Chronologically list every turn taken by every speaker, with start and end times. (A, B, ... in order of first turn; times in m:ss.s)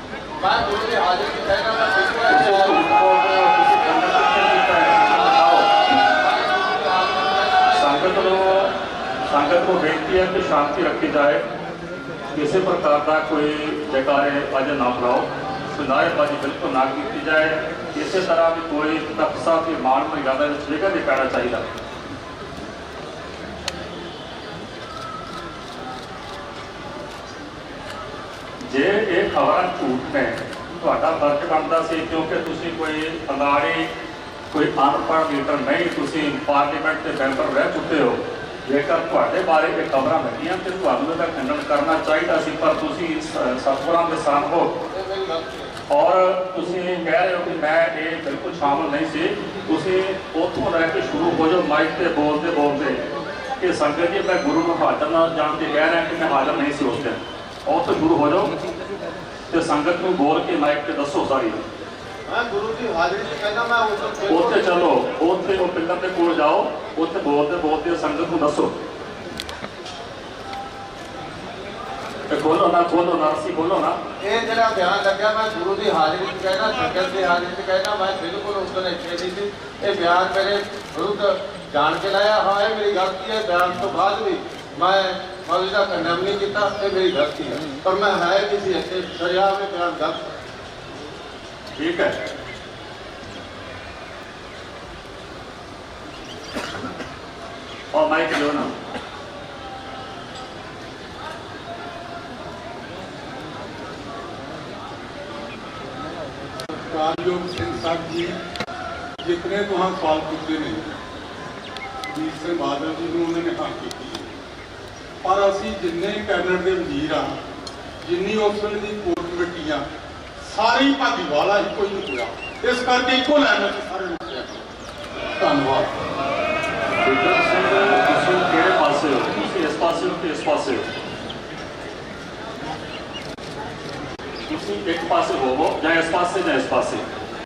0:00.4-0:03.0 A
0:02.3-0:05.7 B
0:06.1-0:08.7 A
0:07.7-0:08.7 B
0:09.3-0:11.4 B
0:12.3-0:21.6 B
0:28.7-0:33.9 B
0:34.5-0:44.7 B
0:44.9-0:45.8 A
0:45.9-0:53.0 B
0:53.6-0:58.5 B
0:59.5-1:01.6 B
1:02.3-1:04.8 A
1:04.3-1:08.7 B
1:12.3-1:14.0 B
1:14.2-1:30.2 A
1:31.8-1:32.2 B
1:37.9-1:38.7 B
1:46.7-1:48.4 C
1:49.2-1:51.0 C
1:52.1-1:54.3 C
1:55.2-1:57.4 C
1:58.0-1:59.8 C
2:00.4-2:04.6 C
2:05.4-2:05.9 C
2:07.0-2:10.9 B
2:14.5-2:17.0 B